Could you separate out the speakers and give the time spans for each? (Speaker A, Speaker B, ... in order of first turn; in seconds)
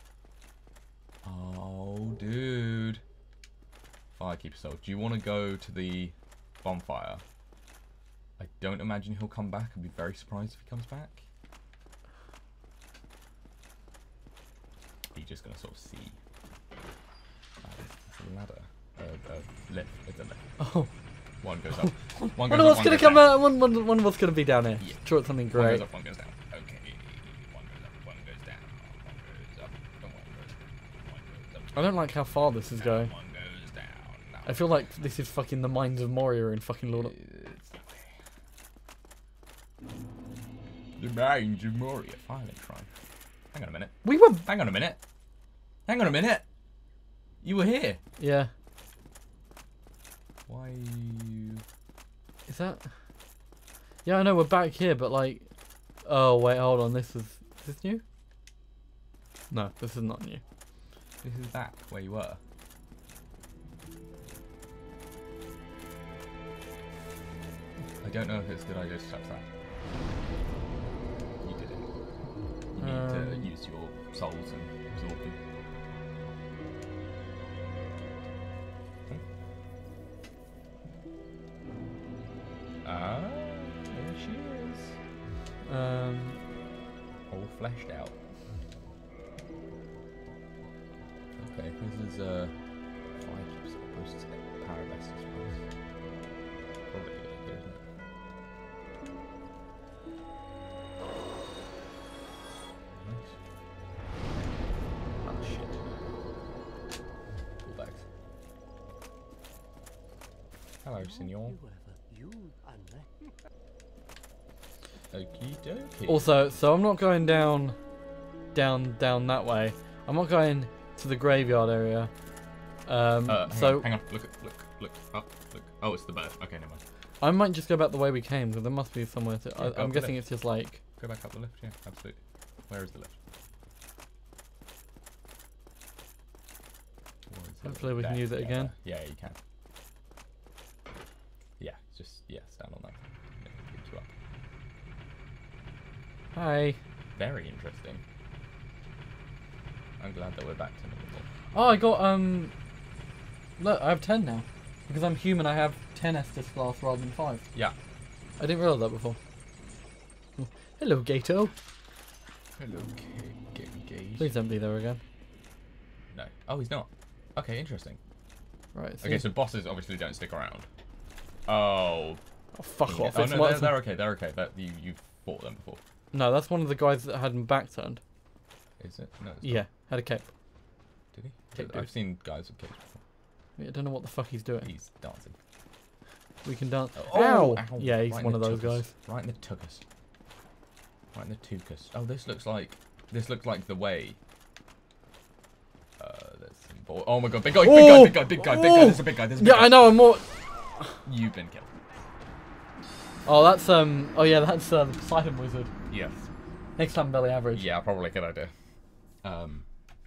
Speaker A: 1.2-3.0, 4.2-7.2, 8.4-11.2, 15.1-16.2, 17.6-20.4, 21.4-23.3, 25.5-31.9, 32.8-34.6, 36.9-38.1, 41.0-42.9, 43.5-45.0, 45.9-46.4, 47.4-48.0, 50.5-51.6, 61.2-62.4, 68.0-69.5, 71.4-71.9, 72.7-75.4, 82.8-85.0, 87.3-88.1, 91.4-92.6, 93.1-95.7, 96.9-97.8, 103.0-103.4, 105.2-105.9, 107.6-108.0, 110.8-111.6, 115.1-116.2, 123.2-126.8, 129.6-130.2, 131.0-133.2, 137.3-139.4, 141.6-144.1, 147.2-148.0, 150.0-151.3, 162.5-164.3, 166.1-168.0, 169.0-170.7, 171.5-172.2, 172.8-175.8, 178.8-179.6, 181.1-183.0, 184.6-185.3, 186.9-189.8, 191.1-194.2, 196.0-200.1, 201.0-201.7, 205.9-206.3, 207.5-208.5, 209.2-209.6
Speaker B: 20.6-20.9, 21.7-25.9, 31.7-33.1, 34.4-37.1, 44.0-44.4, 48.2-48.5, 52.5-52.9, 54.0-55.5, 56.0-58.0, 59.5-60.4, 72.8-73.5, 85.6-86.4, 116.1-117.8, 118.5-122.1, 122.8-123.9, 127.2-130.8, 137.6-138.7, 146.3-146.8, 151.5-152.5, 153.6-157.4, 158.4-159.2, 160.4-161.5, 164.2-165.0, 168.7-169.2, 172.5-173.8, 176.1-178.0, 179.4-180.3, 181.5-181.9, 183.6-184.7, 186.4-188.9, 197.6-201.0, 203.2-205.7, 206.8-207.7